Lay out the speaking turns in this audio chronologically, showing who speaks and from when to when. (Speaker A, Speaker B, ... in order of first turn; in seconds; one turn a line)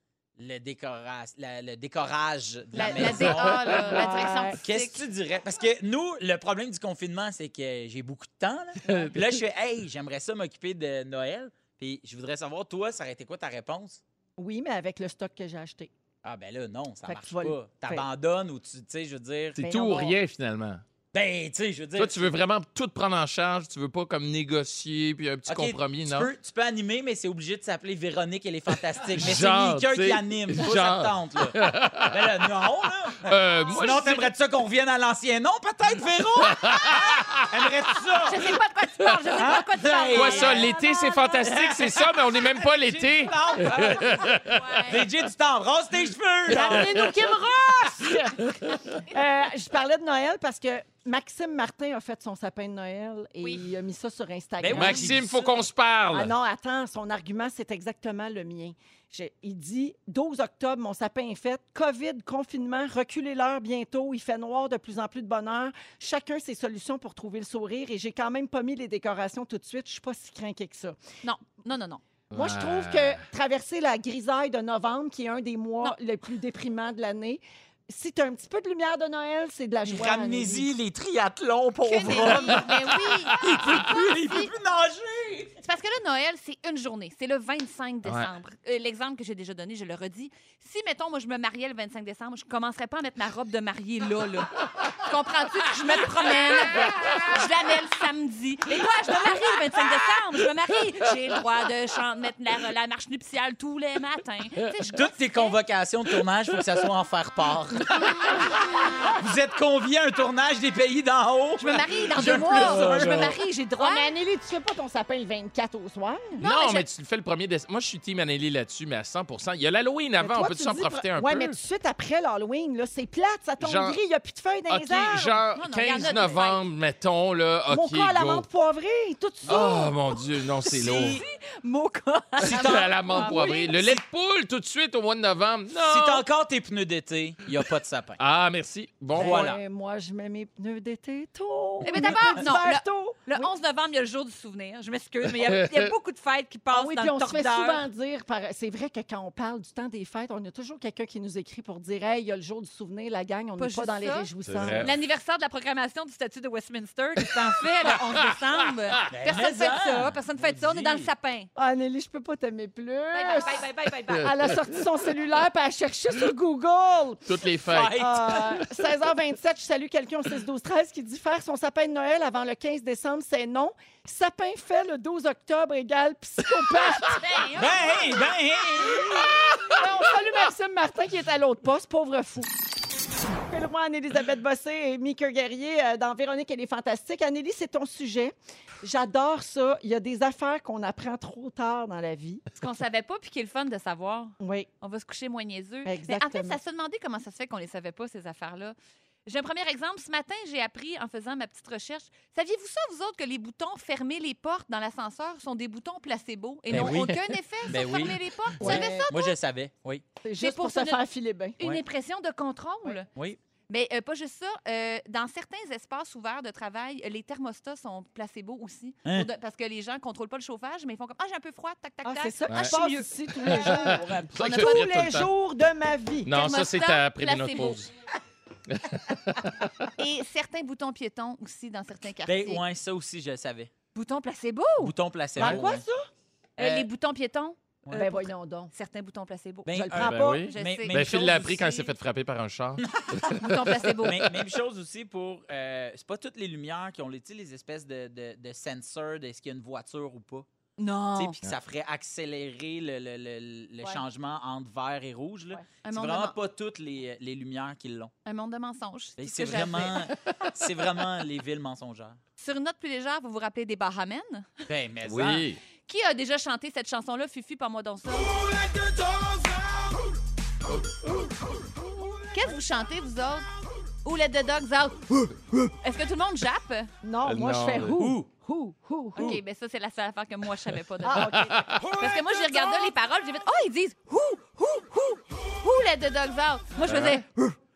Speaker A: 0.4-3.9
Speaker B: 2.7-5.0
Speaker C: 3.7-4.6
Speaker A: 4.6-14.0
Speaker D: 8.9-9.4
Speaker C: 14.4-15.9
Speaker A: 16.2-19.8
Speaker C: 17.1-18.1
Speaker D: 19.5-20.8
Speaker C: 19.6-20.1
Speaker A: 21.1-22.3
Speaker D: 22.0-26.3
Speaker A: 25.5-38.5
Speaker D: 29.1-32.5
Speaker D: 33.2-34.3
Speaker D: 36.4-37.6
Speaker B: 38.2-41.4
Speaker A: 39.4-40.7
Speaker D: 40.1-44.6
Speaker A: 41.4-47.1
Speaker B: 44.2-45.0
Speaker C: 46.5-48.2
Speaker D: 46.5-47.3
Speaker D: 47.9-49.0
Speaker C: 49.0-55.2
Speaker A: 54.6-55.6
Speaker D: 54.7-56.3
Speaker C: 56.1-71.0
Speaker B: 71.2-72.0
Speaker D: 72.3-73.2
Speaker C: 72.3-80.7
Speaker A: 79.9-82.7
Speaker B: 81.8-84.5
Speaker D: 82.2-82.8
Speaker A: 83.4-85.5
Speaker D: 83.4-83.7
Speaker B: 85.6-94.5
Speaker D: 88.0-88.3
Speaker B: 95.0-105.6
Speaker D: 96.9-97.2
Speaker A: 104.9-113.3
Speaker B: 111.6-114.1
Speaker C: 112.3-116.4
Speaker D: 112.4-113.3
Speaker B: 116.4-116.9
Speaker D: 116.4-121.6
Speaker C: 120.2-125.4
Speaker D: 123.6-124.0
Speaker D: 124.7-128.5
Speaker B: 125.5-126.6
Speaker C: 127.7-129.9
Speaker D: 129.4-131.2
Speaker A: 130.7-131.2
Speaker B: 130.8-133.9
Speaker D: 132.4-136.2
Speaker C: 133.1-133.7
Speaker A: 135.8-138.2
Speaker D: 138.2-139.5
Speaker A: 139.2-139.6
Speaker C: 139.2-143.5
Speaker B: 141.8-147.8
Speaker D: 145.2-145.9
Speaker C: 146.7-154.9
Speaker B: 153.6-161.5
Speaker D: 154.4-155.0
Speaker D: 158.2-159.1
Speaker A: 159.1-161.1
Speaker C: 161.6-163.6
Speaker B: 163.1-164.3
Speaker D: 164.1-164.7
Speaker C: 164.2-167.3
Speaker D: 167.2-168.8
Speaker A: 167.7-168.6
Speaker C: 167.9-177.2
Speaker D: 176.6-177.0
Speaker B: 177.1-177.9
Speaker A: 177.6-179.1
Speaker C: 178.8-182.5
Speaker D: 179.1-179.9
Speaker C: 183.5-192.4
Speaker B: 192.6-198.7
Speaker C: 194.4-194.7
Speaker C: 195.8-196.6
Speaker B: 199.2-209.4
Speaker D: 206.7-207.4
Speaker A: 206.7-207.0
Speaker A: 207.7-210.0
Speaker C: 208.6-209.1
Speaker C: 210.2-211.6
Speaker B: 210.4-211.0
Speaker B: 211.6-213.1
Speaker B: 213.7-223.6
Speaker C: 222.0-226.4
Speaker D: 222.5-222.8
Speaker D: 223.3-225.3
Speaker A: 223.6-224.3
Speaker B: 224.4-224.8
Speaker D: 226.2-227.9
Speaker B: 226.3-227.9
Speaker D: 228.7-229.9
Speaker B: 230.0-232.6
Speaker A: 232.2-233.7
Speaker B: 233.9-234.9
Speaker A: 234.8-235.8
Speaker C: 235.4-236.1
Speaker B: 236.6-241.0
Speaker A: 236.6-236.9
Speaker A: 237.9-238.1
Speaker C: 237.9-238.7
Speaker A: 239.7-241.9
Speaker C: 239.7-240.5
Speaker D: 239.9-243.9
Speaker A: 242.8-243.3
Speaker B: 243.3-244.3
Speaker A: 244.0-250.4
Speaker B: 250.8-251.4
Speaker A: 251.1-258.1
Speaker B: 255.8-256.4
Speaker B: 258.2-260.1
Speaker A: 259.2-262.2
Speaker B: 262.4-264.6
Speaker A: 264.7-265.5
Speaker D: 265.0-265.6
Speaker B: 265.9-268.3
Speaker B: 272.3-273.5
Speaker B: 274.0-275.2
Speaker B: 275.8-276.9
Speaker C: 277.0-279.4
Speaker D: 277.2-278.1
Speaker A: 277.9-278.3
Speaker B: 279.1-281.4
Speaker C: 281.0-282.9
Speaker D: 281.1-281.8
Speaker B: 281.9-287.2
Speaker D: 286.8-287.2